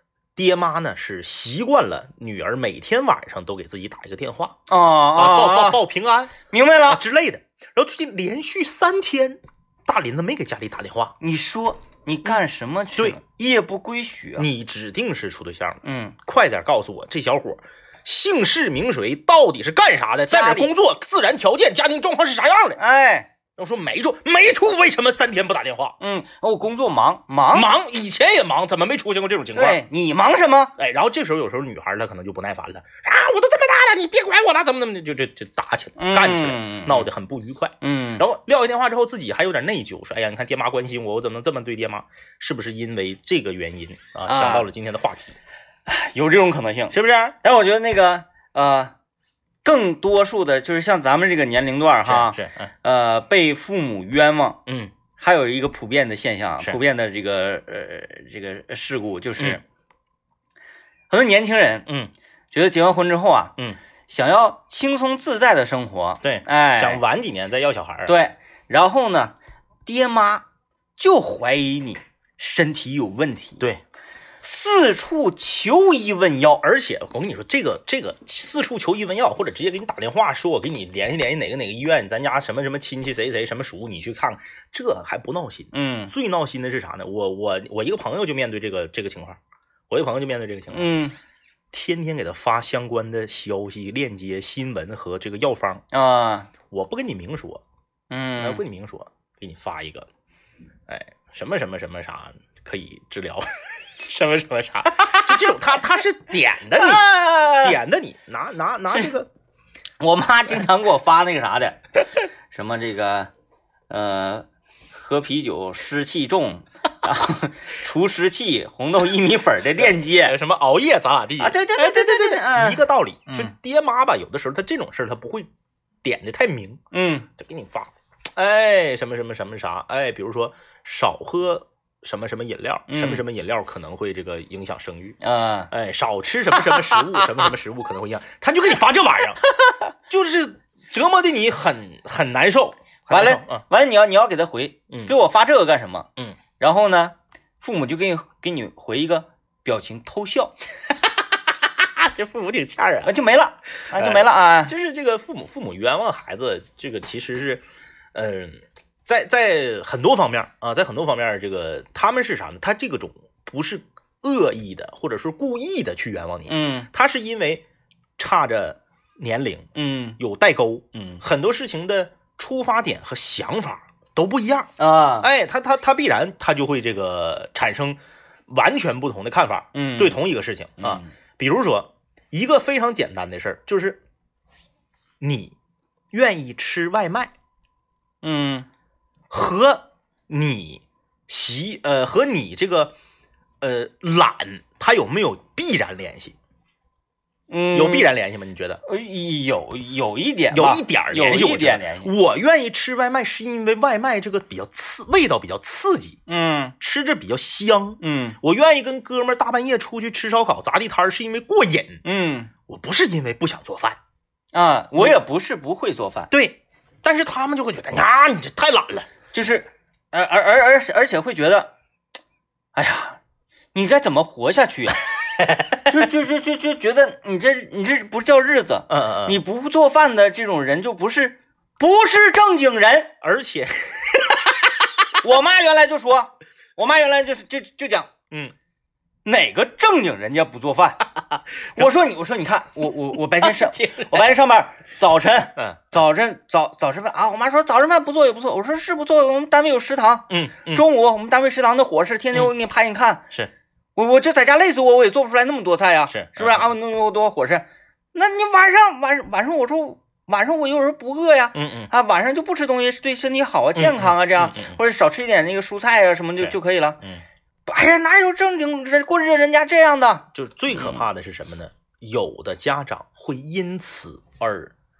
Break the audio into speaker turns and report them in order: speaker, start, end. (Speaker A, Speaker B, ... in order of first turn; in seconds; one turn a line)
Speaker A: 0.3-4.6
Speaker B: 4.7-5.8
Speaker A: 5.1-11.2
Speaker B: 6.5-7.0
Speaker B: 11.2-14.5
Speaker A: 14.4-22.8
Speaker B: 15.8-16.1
Speaker B: 20.3-20.7
Speaker B: 22.8-23.3
Speaker A: 23.6-25.9
Speaker B: 26.0-27.7
Speaker A: 27.5-29.8
Speaker B: 29.5-30.7
Speaker A: 30.8-45.4
Speaker B: 36.0-37.1
Speaker B: 37.8-38.2
Speaker B: 44.3-44.7
Speaker B: 45.9-48.9
Speaker A: 46.9-47.4
Speaker B: 49.6-54.6
Speaker A: 52.0-52.7
Speaker A: 54.6-54.9
Speaker B: 55.2-59.6
Speaker B: 61.1-61.9
Speaker A: 61.9-62.1
Speaker B: 62.5-63.5
Speaker B: 64.1-67.0
Speaker A: 66.2-68.1
Speaker B: 68.0-69.3
Speaker B: 69.8-70.4
Speaker B: 71.0-73.6
Speaker B: 74.4-76.6
Speaker A: 76.6-89.4
Speaker B: 85.7-86.1
Speaker A: 89.9-91.0
Speaker B: 90.7-91.1
Speaker A: 91.7-95.8
Speaker B: 95.9-96.5
Speaker A: 96.7-97.6
Speaker B: 98.1-98.6
Speaker A: 98.4-100.1
Speaker A: 100.9-109.3
Speaker B: 104.9-105.4
Speaker B: 106.7-107.8
Speaker B: 110.0-113.3
Speaker B: 113.9-120.3
Speaker A: 119.8-125.5
Speaker B: 121.4-123.5
Speaker A: 126.0-126.8
Speaker B: 126.9-127.3
Speaker A: 127.4-135.2
Speaker B: 132.9-133.2
Speaker B: 135.2-135.7
Speaker A: 135.7-139.4
Speaker B: 136.7-137.3
Speaker A: 140.1-143.6
Speaker B: 143.1-150.5
Speaker A: 151.6-153.1
Speaker B: 153.0-154.7
Speaker A: 153.9-167.6
Speaker B: 166.5-166.9
Speaker A: 168.2-184.0
Speaker B: 169.7-170.2
Speaker B: 170.9-171.2
Speaker B: 174.8-175.3
Speaker B: 179.7-180.2
Speaker B: 180.8-181.1
Speaker A: 185.2-185.5
Speaker A: 186.1-187.3
Speaker B: 188.2-188.7
Speaker A: 189.3-192.9
Speaker A: 193.6-196.3
Speaker B: 197.5-198.1
Speaker A: 197.7-198.8
Speaker B: 198.8-202.1
Speaker A: 200.5-206.2
Speaker B: 206.3-206.7
Speaker A: 206.8-212.0
Speaker B: 208.0-208.4
Speaker B: 212.0-212.5
Speaker A: 212.7-214.0
Speaker B: 214.5-216.3
Speaker A: 216.3-219.1
Speaker B: 219.3-221.7
Speaker B: 222.8-223.2
Speaker B: 223.7-225.1
Speaker A: 225.4-225.8
Speaker B: 225.8-233.1
Speaker A: 228.9-229.4
Speaker A: 233.2-235.1
Speaker B: 235.2-238.1
Speaker B: 239.2-241.0
Speaker B: 241.7-253.2
Speaker A: 243.3-244.2
Speaker A: 245.6-246.0
Speaker A: 250.3-250.8
Speaker B: 253.9-267.0
Speaker A: 256.1-256.7
Speaker A: 261.5-261.9
Speaker A: 263.8-264.8
Speaker A: 266.4-267.2
Speaker B: 267.6-271.0
Speaker A: 270.3-274.7